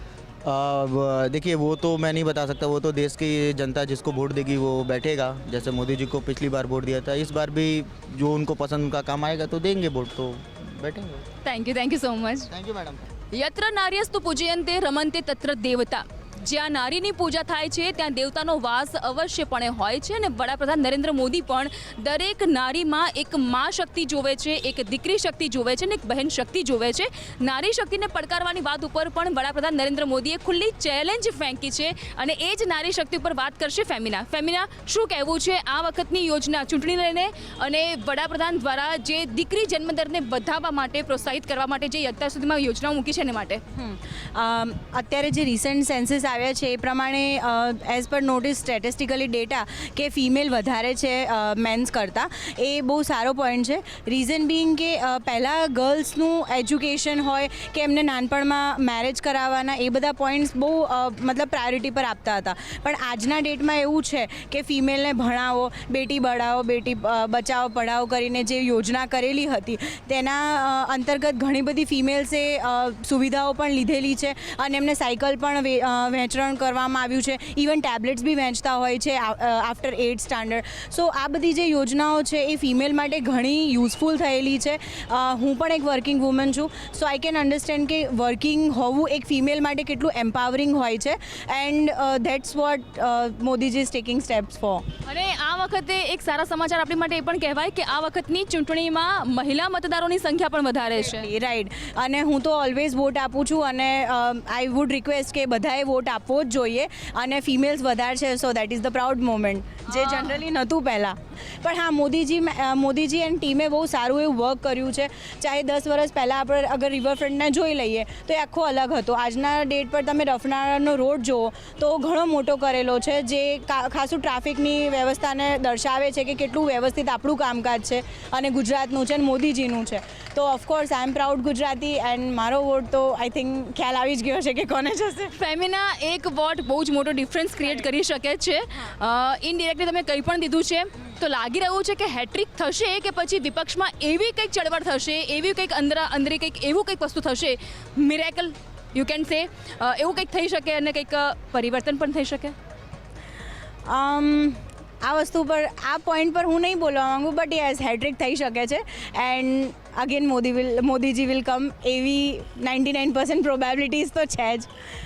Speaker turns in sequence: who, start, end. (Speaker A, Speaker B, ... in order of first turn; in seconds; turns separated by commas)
Speaker A: 0.4-11.3, Speaker B: 11.4-12.5, Speaker A: 12.5-13.1, Speaker B: 13.3-43.6, Speaker C: 43.7-94.9, Speaker B: 95.0-101.3, Speaker C: 100.9-135.3, Speaker B: 109.9-110.4, Speaker B: 135.4-152.6, Speaker C: 153.9-164.7